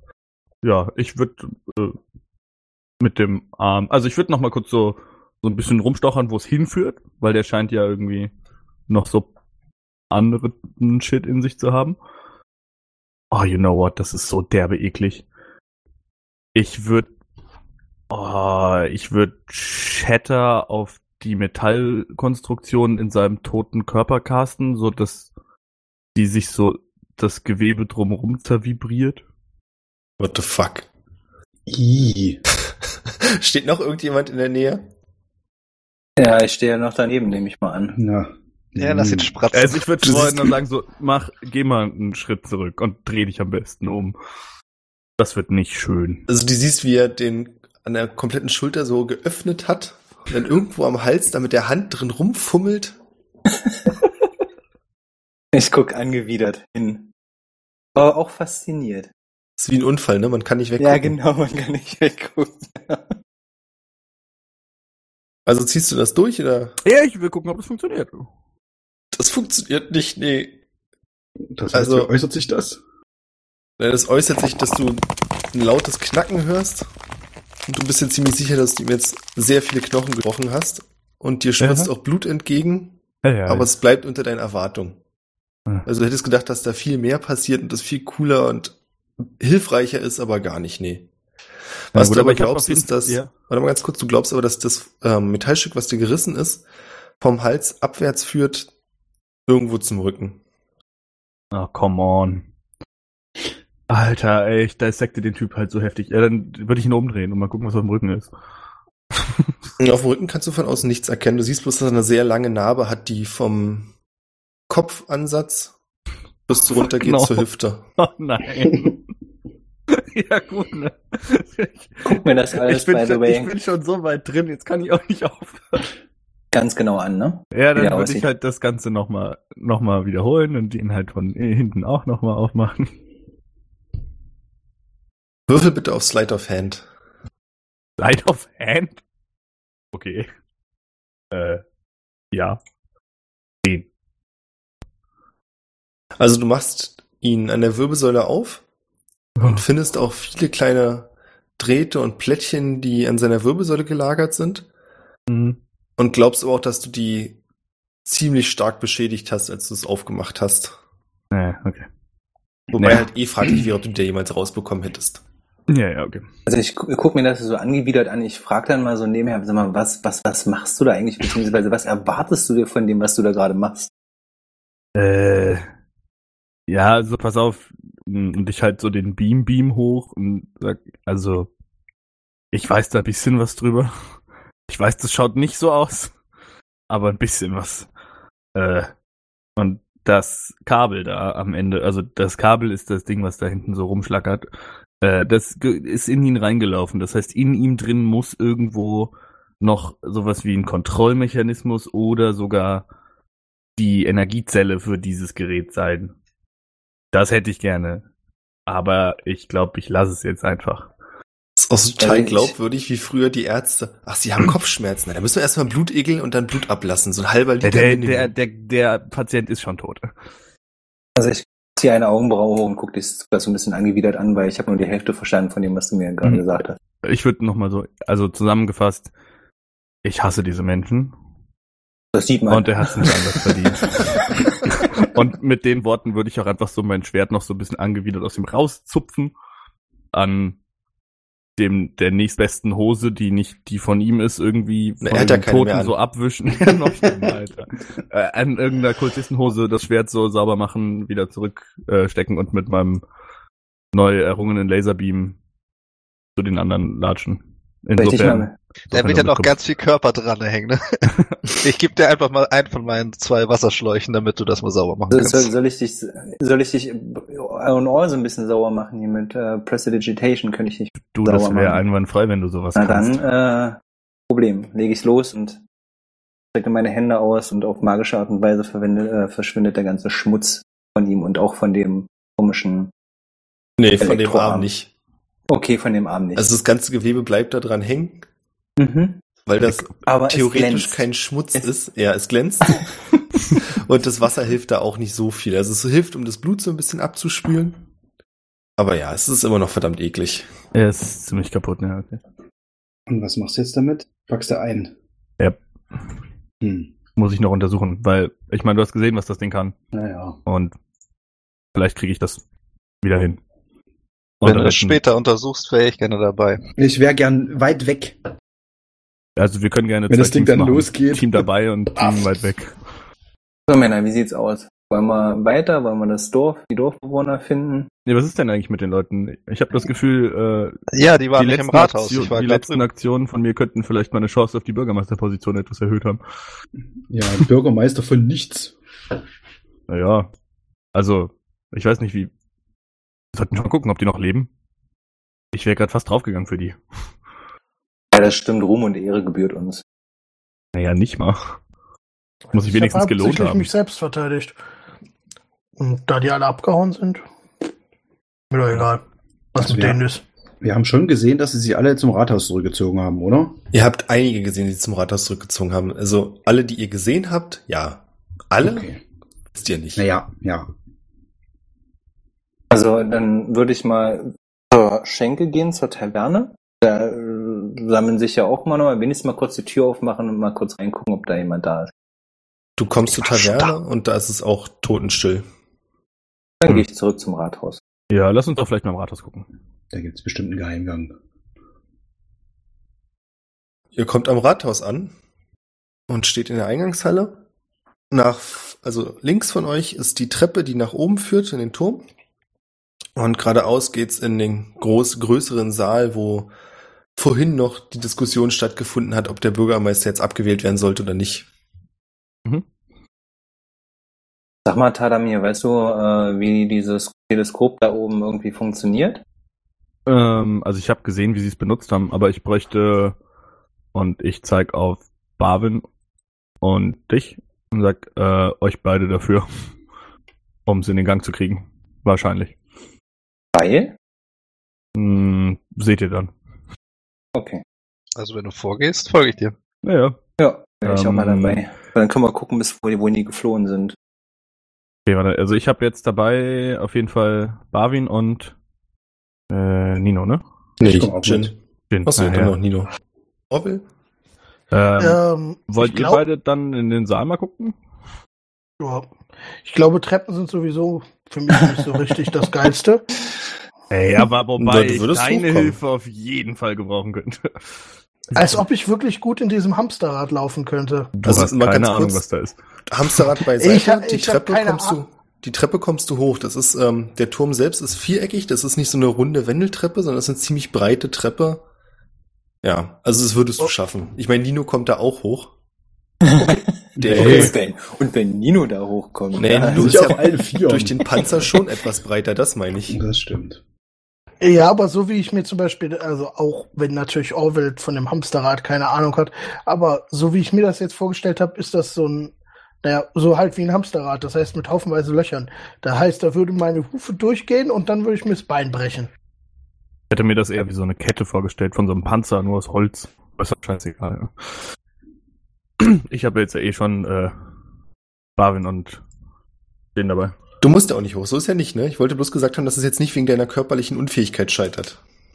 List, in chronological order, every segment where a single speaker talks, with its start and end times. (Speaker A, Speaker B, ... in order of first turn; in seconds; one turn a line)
Speaker A: 0.6-2.0
Speaker A: 3.0-8.3
Speaker A: 8.9-9.3
Speaker A: 10.1-12.0
Speaker A: 13.3-15.2
Speaker A: 16.6-17.1
Speaker A: 18.1-25.3
Speaker A: 26.1-29.2
Speaker B: 30.2-30.9
Speaker C: 31.7-32.4
Speaker B: 33.1-34.8
Speaker D: 36.2-38.0
Speaker C: 38.0-39.3
Speaker E: 38.8-40.3
Speaker A: 39.5-44.1
Speaker A: 45.2-46.3
Speaker B: 46.3-53.0
Speaker D: 55.5-57.1
Speaker D: 58.0-59.1
Speaker B: 59.6-61.1
Speaker D: 60.8-63.1
Speaker B: 65.5-66.8
Speaker A: 66.8-68.3
Speaker B: 69.1-70.6
Speaker C: 71.5-72.8
Speaker B: 71.7-72.1
Speaker B: 73.8-76.9
Speaker B: 77.7-85.0
Speaker A: 81.6-81.9
Speaker A: 83.2-83.7
Speaker B: 85.9-88.8
Speaker B: 89.4-91.1
Speaker B: 91.9-96.6
Speaker A: 92.0-93.3
Speaker B: 97.2-98.7
Speaker B: 99.5-100.4
Speaker A: 101.5-102.5
Speaker A: 103.9-108.3
Speaker A: 109.1-109.5
Speaker B: 109.8-113.9
Speaker B: 114.7-115.7
Speaker B: 116.5-117.8
Speaker A: 117.0-117.5
Speaker A: 118.0-119.0
Speaker A: 119.9-125.9
Speaker D: 122.0-123.5
Speaker D: 126.5-128.2
Speaker A: 127.5-132.9
Speaker B: 135.5-136.9
Speaker A: 138.0-139.0
Speaker A: 139.9-140.3
Speaker A: 141.3-141.6
Speaker A: 142.3-142.6
Speaker B: 146.2-148.6
Speaker A: 149.4-149.6
Speaker B: 149.4-154.7
Speaker A: 155.3-155.6
Speaker B: 156.0-157.4
Speaker B: 158.1-160.8
Speaker A: 161.3-161.8
Speaker B: 162.7-165.2
Speaker A: 162.8-163.1
Speaker A: 165.7-166.3
Speaker D: 166.5-173.9
Speaker A: 174.9-175.7
Speaker A: 176.7-181.5
Speaker A: 182.5-183.9
Speaker A: 184.7-186.1
Speaker A: 186.9-187.9
Speaker A: 188.6-188.9
Speaker A: 189.6-194.5
Speaker A: 195.0-202.8
Speaker A: 203.8-206.1
Speaker A: 207.1-208.1
Speaker A: 208.7-210.9
Speaker B: 211.6-218.3
Speaker D: 212.0-212.6
Speaker A: 217.6-220.1
Speaker D: 221.2-226.8
Speaker A: 227.0-229.1
Speaker A: 230.0-231.1
Speaker D: 232.1-232.9
Speaker A: 232.5-239.3
Speaker A: 240.1-240.6
Speaker A: 241.6-253.0
Speaker B: 245.0-245.9
Speaker A: 253.9-255.4
Speaker A: 256.4-259.5
Speaker D: 258.0-258.5
Speaker E: 258.9-265.5
Speaker D: 265.1-271.8
Speaker A: 271.1-273.2
Speaker D: 272.8-273.8
Speaker D: 274.3-275.6
Speaker D: 276.5-282.9
Speaker B: 283.8-284.9
Speaker D: 284.0-284.7
Speaker D: 285.5-286.5
Speaker B: 286.4-288.2
Speaker D: 288.8-289.2
Speaker B: 289.5-292.9
Speaker D: 290.0-291.7
Speaker B: 293.7-297.8
Speaker B: 298.8-300.5
Speaker A: 300.7-302.2
Speaker C: 303.1-304.9
Speaker C: 306.6-306.9
Speaker A: 307.1-309.8
Speaker C: 309.9-310.4
Speaker A: 310.5-310.7
Speaker A: 311.7-312.4
Speaker A: 313.0-313.4
Speaker A: 314.4-315.0
Speaker E: 314.4-316.6
Speaker C: 316.8-318.2
Speaker A: 319.4-322.7
Speaker C: 320.1-322.2
Speaker D: 323.7-327.9
Speaker A: 328.1-336.2
Speaker E: 330.9-332.8
Speaker C: 337.1-338.8
Speaker A: 339.9-340.3
Speaker A: 340.9-342.3
Speaker A: 343.3-344.5
Speaker A: 345.5-346.8
Speaker D: 348.1-349.8
Speaker A: 350.8-351.5
Speaker F: 352.5-354.6
Speaker A: 352.5-353.7
Speaker F: 355.8-357.2
Speaker F: 358.5-359.0
Speaker F: 359.6-360.2
Speaker C: 359.6-360.0
Speaker C: 360.6-363.6
Speaker B: 363.7-368.9
Speaker C: 368.6-369.0
Speaker B: 369.5-370.1
Speaker C: 370.0-370.7
Speaker D: 372.7-381.9
Speaker B: 382.8-385.4
Speaker D: 386.6-387.8
Speaker A: 388.1-389.5
Speaker C: 389.9-391.1
Speaker B: 393.9-395.1
Speaker B: 396.1-397.4
Speaker B: 398.1-402.0
Speaker B: 403.1-406.5
Speaker B: 407.1-411.5
Speaker D: 414.6-419.2
Speaker A: 420.1-423.1
Speaker A: 423.9-425.8
Speaker A: 426.6-429.4
Speaker A: 430.7-432.6
Speaker D: 433.5-433.9
Speaker A: 434.9-436.3
Speaker D: 437.4-437.6
Speaker E: 438.1-439.5
Speaker A: 439.8-440.2
Speaker D: 440.4-443.9
Speaker A: 440.9-441.6
Speaker A: 445.1-448.6
Speaker A: 449.5-450.4
Speaker B: 450.8-451.5
Speaker C: 450.9-451.5
Speaker A: 451.9-452.6
Speaker B: 452.1-452.9
Speaker B: 453.5-453.8
Speaker A: 454.7-457.8
Speaker F: 455.0-456.2
Speaker F: 458.8-459.1
Speaker F: 459.6-463.0
Speaker A: 463.9-467.8
Speaker B: 464.6-465.8
Speaker A: 468.3-468.6
Speaker F: 468.4-471.1
Speaker A: 471.1-472.6
Speaker B: 471.2-472.2
Speaker B: 472.9-481.6
Speaker F: 473.6-475.0
Speaker B: 482.6-485.5
Speaker D: 486.2-490.1
Speaker C: 487.0-487.5
Speaker B: 487.0-487.5
Speaker B: 489.4-493.0
Speaker C: 489.7-491.1
Speaker C: 492.9-493.6
Speaker F: 494.4-509.1
Speaker A: 510.1-514.3
Speaker A: 515.8-517.3
Speaker A: 518.4-519.0
Speaker A: 520.0-520.4
Speaker B: 520.6-525.0